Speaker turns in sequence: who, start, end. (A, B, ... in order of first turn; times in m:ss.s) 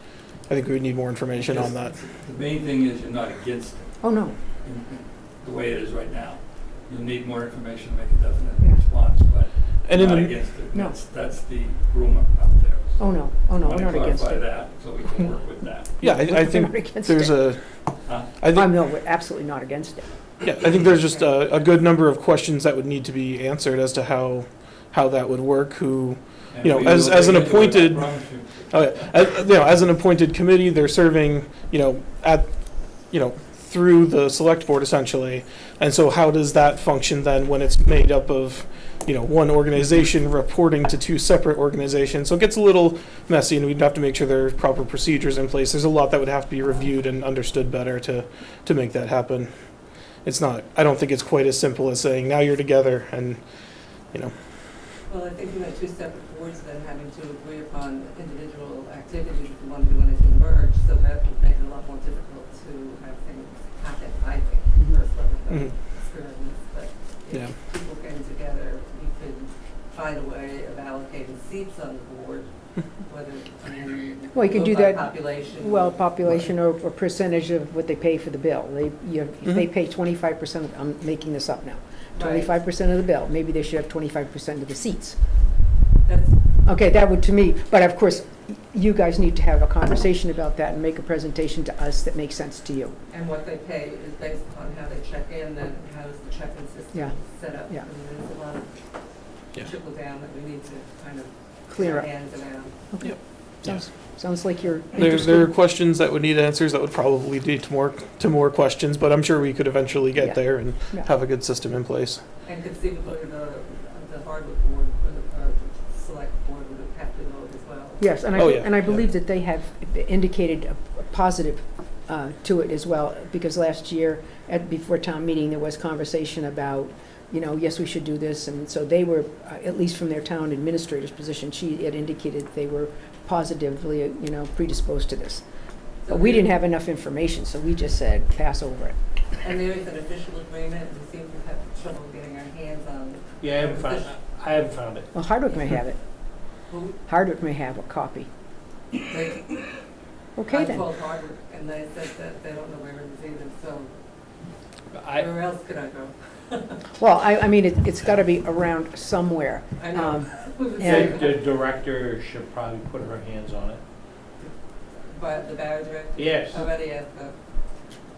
0:00.5-0:02.0 A
0:01.4-0:16.0 B
0:04.0-0:04.4 C
0:09.9-0:10.3 A
0:13.0-0:14.5 C
0:16.0-0:17.5 C
0:16.0-0:17.7 A
0:18.0-0:18.4 B
0:18.4-0:18.8 A
0:18.5-0:20.1 C
0:20.4-0:28.2 A
0:26.5-0:29.0 B
0:28.7-0:32.5 A
0:33.1-0:49.5 A
0:50.2-0:53.4 A
0:55.1-1:12.5 D
1:13.0-1:16.1 D
1:14.3-1:25.2 C
1:22.2-1:22.6 D
1:26.0-1:26.4 D
1:26.7-1:33.0 C
1:33.1-1:38.8 D
1:39.5-1:42.7 D
1:41.7-1:42.1 C
1:42.9-1:45.5 C
1:43.0-1:43.8 A
1:45.0-1:52.2 A
1:50.2-1:51.1 C
1:52.4-1:58.1 D
1:58.0-2:15.4 C
1:58.4-1:59.0 A
2:16.0-2:16.5 D
2:16.1-2:19.0 C
2:19.4-2:24.2 D
2:23.4-2:25.1 E
2:25.1-2:26.0 C
2:26.7-2:27.0 D
2:27.1-2:28.3 C
2:29.1-2:29.7 D
2:30.4-2:30.8 C
2:30.5-2:33.9 D
2:34.9-2:35.3 E
2:35.1-2:36.8 D
2:37.0-2:41.3 C
2:39.8-2:41.4 D
2:40.8-2:43.8 E
2:45.0-2:47.4 D
2:46.2-2:46.6 E